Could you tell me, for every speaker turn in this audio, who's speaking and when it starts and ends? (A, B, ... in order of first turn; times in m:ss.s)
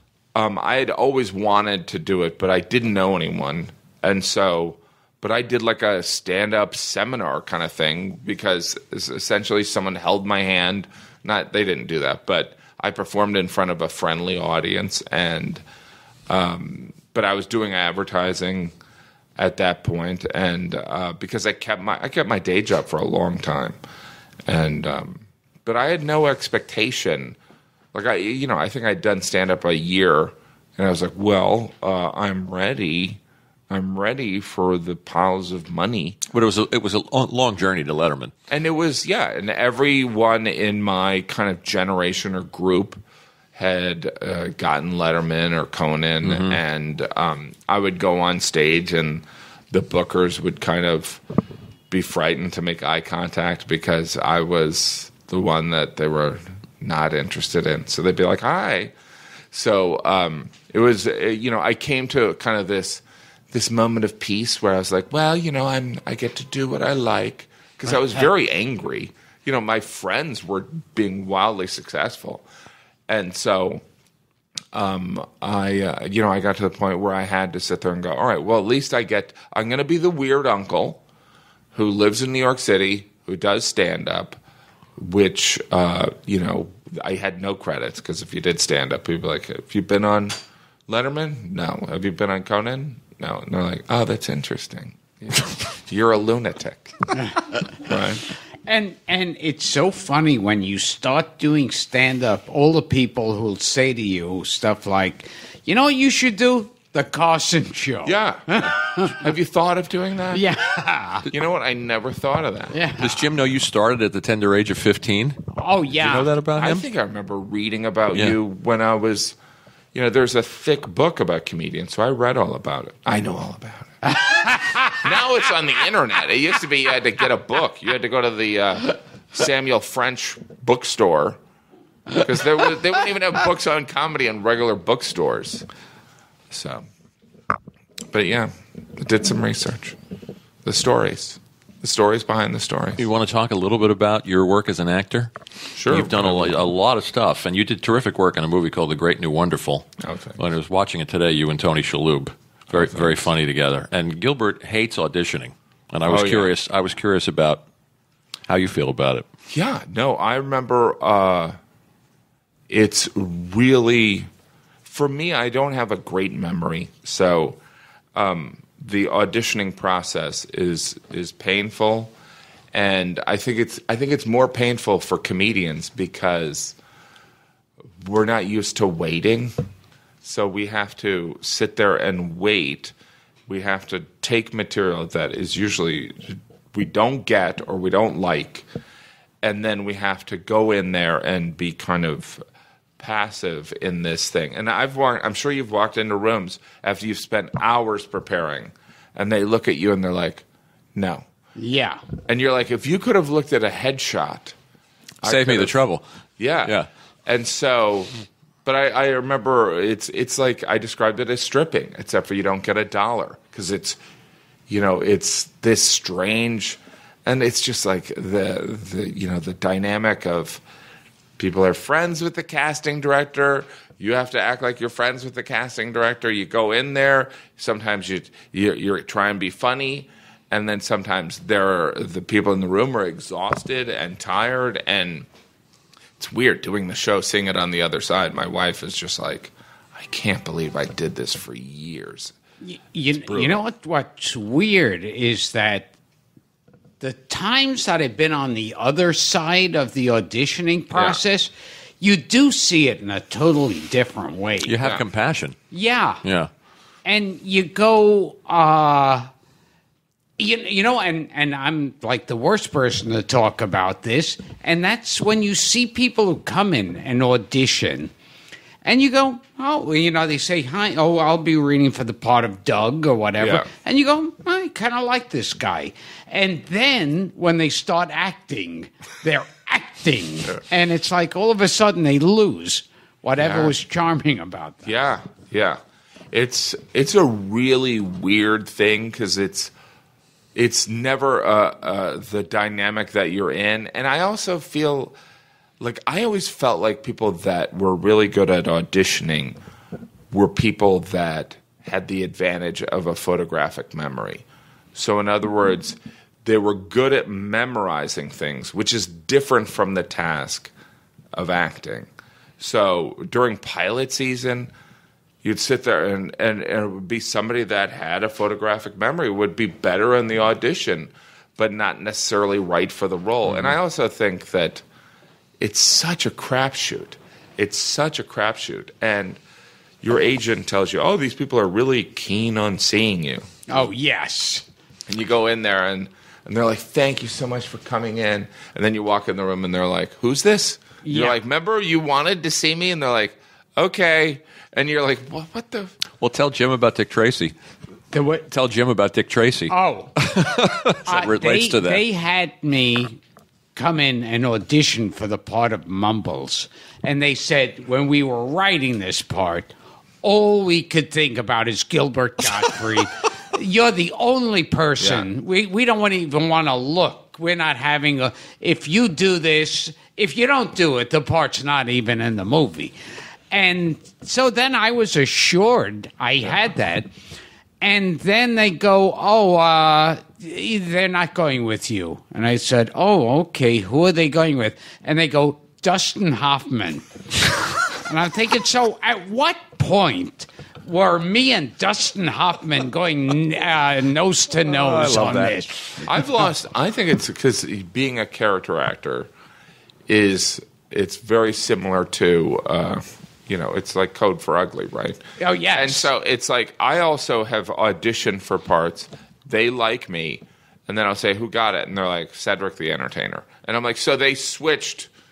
0:00.3-0:15.6 A
0:16.3-0:18.7 A
0:19.4-0:23.8 A
0:24.4-0:27.4 A
0:27.9-0:36.2 A
0:36.3-0:38.3 B
0:38.5-0:43.0 A
0:43.5-0:51.2 A
0:46.2-0:46.6 B
0:51.9-0:58.9 A
0:59.5-1:12.4 A
1:13.1-1:13.8 A
1:14.7-1:21.0 A
1:21.7-1:24.4 A
1:25.0-1:37.2 A
1:37.8-1:38.2 A
1:38.6-1:49.2 C
1:48.0-1:50.4 A
1:50.3-1:51.3 C
1:51.2-1:52.8 A
1:52.7-1:53.2 C
1:53.0-1:55.4 B
1:55.5-1:56.3 C
1:56.0-1:56.8 B
1:56.5-1:59.4 A
1:59.9-2:11.4 A
2:04.2-2:05.0 C
2:12.1-2:15.6 A
2:16.5-2:16.8 A
2:18.1-2:20.0 A
2:20.6-2:23.0 A
2:23.0-2:25.3 B
2:25.7-2:26.6 A
2:25.9-2:37.6 B
2:30.0-2:30.4 A
2:32.7-2:33.2 A
2:36.0-2:36.5 A
2:38.5-2:39.3 B
2:39.5-2:41.6 A
2:42.7-2:44.3 A
2:44.8-2:47.6 A
2:48.1-2:52.1 A
2:52.7-2:56.8 A
2:58.0-2:59.5 A
3:00.2-3:02.9 A
3:03.5-3:08.6 A
3:09.4-3:12.4 A
3:13.0-3:21.3 A
3:21.6-3:22.0 C
3:22.2-3:24.5 A
3:25.2-3:25.7 A
3:25.2-3:26.0 B
3:26.4-3:28.1 A
3:26.6-3:26.9 B
3:28.6-3:34.0 A
3:34.7-3:40.6 A
3:41.4-3:55.3 A
3:56.2-4:02.3 A
4:02.6-4:05.9 C
4:03.2-4:03.6 A
4:07.0-4:15.0 C
4:10.9-4:11.2 A
4:14.6-4:15.6 B
4:15.7-4:16.2 C
4:16.2-4:16.5 B
4:17.0-4:19.3 C
4:20.4-4:28.1 C
4:28.8-4:44.9 C
4:33.4-4:33.7 A
4:43.4-4:43.7 A
4:44.8-4:45.8 A
4:46.3-4:49.7 A
4:50.5-4:55.1 A
4:55.8-4:59.6 A
5:00.3-5:04.4 A
5:04.9-5:10.7 A
5:11.3-5:12.1 A
5:12.6-5:14.7 A
5:15.4-5:24.8 A
5:25.6-5:29.4 A
5:30.0-5:33.8 A
5:33.7-5:34.6 C
5:35.1-5:45.9 A
5:41.0-5:41.4 C
5:46.2-5:47.5 B
5:48.1-5:48.5 C
5:48.5-5:52.0 B
5:49.7-5:50.1 C
5:51.0-5:53.2 C
5:53.7-5:59.7 C
6:00.2-6:12.9 C
6:05.0-6:05.3 A
6:13.5-6:17.1 C
6:17.8-6:27.1 C
6:27.9-6:36.0 C
6:34.6-6:35.6 B
6:36.0-6:39.3 A
6:40.1-6:45.2 A
6:45.4-6:46.1 C
6:45.7-6:55.1 A